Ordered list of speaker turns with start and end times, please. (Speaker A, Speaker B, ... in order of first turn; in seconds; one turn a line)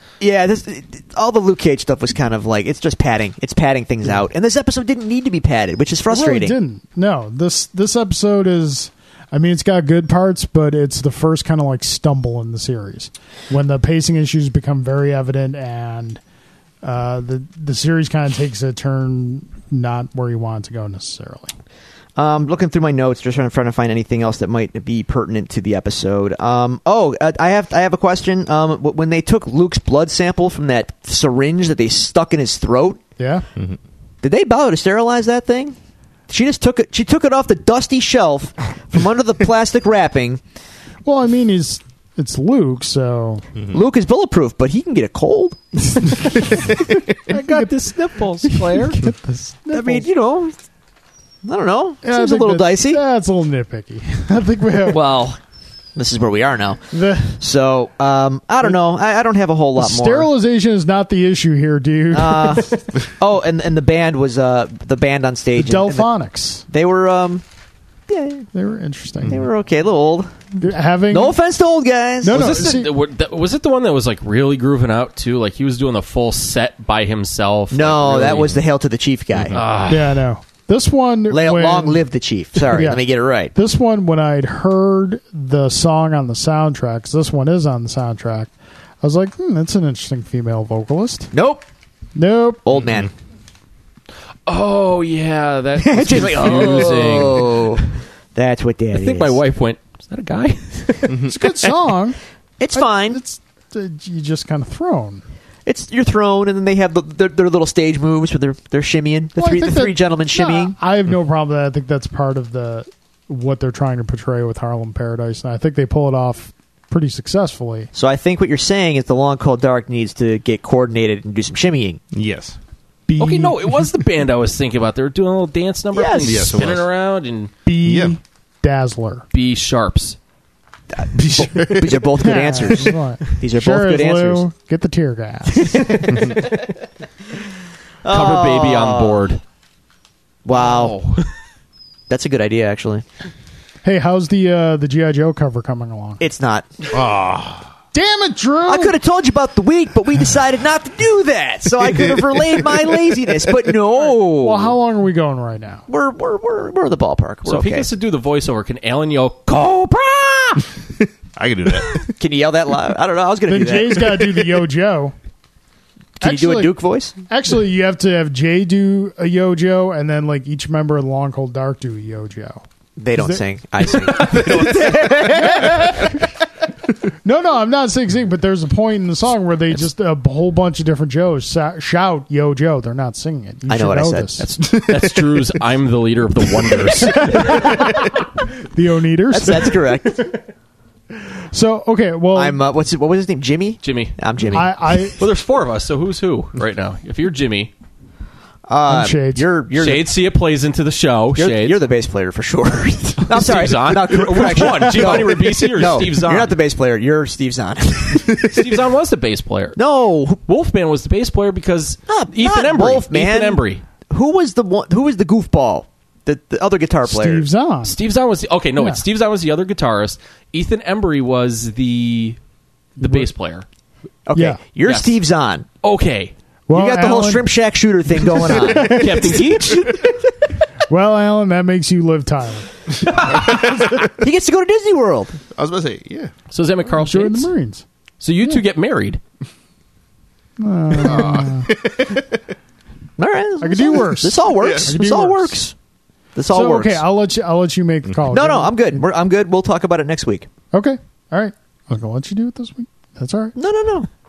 Speaker A: 0.2-6.6
Speaker B: 6.1-16.2
Speaker B: 16.8-21.5
Speaker A: 22.2-33.0
Speaker B: 33.2-33.5
Speaker A: 34.2-35.8
Speaker A: 36.3-40.4
Speaker B: 41.0-43.5
Speaker A: 43.7-46.6
Speaker B: 47.3-47.8
Speaker C: 47.3-49.0
Speaker B: 48.4-50.1
Speaker A: 49.7-50.6
Speaker A: 51.5-53.0
Speaker B: 52.0-55.0
Speaker A: 54.9-55.4
Speaker A: 56.0-60.3
Speaker B: 56.9-57.4
Speaker B: 59.8-62.8
Speaker A: 62.1-66.1
Speaker B: 65.6-66.7
Speaker A: 66.7-67.4
Speaker A: 68.1-68.5
Speaker B: 68.5-69.5
Speaker A: 69.3-70.3
Speaker B: 70.6-71.4
Speaker A: 71.1-72.7
Speaker B: 72.2-72.9
Speaker C: 72.3-78.6
Speaker A: 77.7-79.6
Speaker D: 79.3-79.6
Speaker C: 79.5-80.2
Speaker B: 79.9-82.0
Speaker A: 81.3-83.5
Speaker B: 82.7-83.0
Speaker B: 83.5-91.3
Speaker A: 91.3-91.7
Speaker B: 92.2-92.6
Speaker A: 92.7-93.1
Speaker D: 92.8-93.1
Speaker C: 94.5-97.8
Speaker A: 95.8-99.4
Speaker C: 98.9-101.7
Speaker B: 101.2-102.2
Speaker A: 102.6-103.2
Speaker B: 102.7-105.2
Speaker A: 105.7-110.8
Speaker B: 109.4-117.9
Speaker A: 117.9-122.0
Speaker D: 122.1-122.6
Speaker B: 123.1-123.9
Speaker C: 123.2-127.5
Speaker A: 125.9-126.5
Speaker D: 126.2-126.9
Speaker B: 127.7-129.2
Speaker D: 127.8-128.1
Speaker C: 129.3-130.2
Speaker A: 130.9-134.4
Speaker D: 131.1-132.4
Speaker B: 132.2-136.1
Speaker A: 135.5-136.6
Speaker A: 138.0-139.3
Speaker C: 138.1-139.4
Speaker A: 140.4-141.0
Speaker C: 140.5-141.3
Speaker A: 142.1-143.0
Speaker B: 143.8-146.2
Speaker A: 146.2-146.7
Speaker D: 146.9-147.7
Speaker B: 147.9-149.0
Speaker A: 148.7-154.8
Speaker B: 154.4-155.8
Speaker A: 155.9-157.9
Speaker C: 157.5-160.7
Speaker D: 161.3-162.0
Speaker A: 162.2-164.5
Speaker B: 163.5-165.1
Speaker A: 166.2-167.2
Speaker B: 166.2-166.7
Speaker B: 167.3-173.4
Speaker A: 173.0-176.2
Speaker C: 173.8-175.5
Speaker B: 175.3-176.2
Speaker B: 177.2-184.5
Speaker A: 183.7-185.1
Speaker C: 184.4-187.9
Speaker B: 187.0-189.9
Speaker A: 189.3-190.3
Speaker B: 191.5-192.6
Speaker A: 192.3-194.7
Speaker C: 193.8-197.7
Speaker B: 194.5-195.2
Speaker A: 198.7-200.1
Speaker B: 198.9-199.5
Speaker C: 199.8-201.8
Speaker A: 201.4-208.5
Speaker C: 203.3-206.5
Speaker C: 208.3-209.8
Speaker A: 209.8-210.4
Speaker C: 210.5-213.8
Speaker A: 212.1-217.4
Speaker B: 217.1-218.0
Speaker C: 217.8-222.4
Speaker C: 223.0-223.7
Speaker B: 223.0-223.3
Speaker A: 224.3-225.7
Speaker B: 224.3-224.6
Speaker C: 224.9-225.1
Speaker C: 225.8-226.3
Speaker B: 226.7-227.5
Speaker A: 226.7-230.1
Speaker B: 228.1-229.5
Speaker C: 228.6-230.1
Speaker B: 230.9-232.7
Speaker D: 233.2-234.0
Speaker A: 233.5-235.4
Speaker D: 235.5-236.3
Speaker C: 236.5-237.5
Speaker B: 237.0-237.8
Speaker C: 238.2-239.2
Speaker B: 240.6-241.7
Speaker D: 240.9-242.4
Speaker A: 243.2-245.7
Speaker B: 243.6-245.6
Speaker D: 244.6-244.9
Speaker A: 246.3-247.0
Speaker B: 246.5-248.8
Speaker A: 248.3-250.5
Speaker B: 250.7-253.6
Speaker A: 253.6-254.1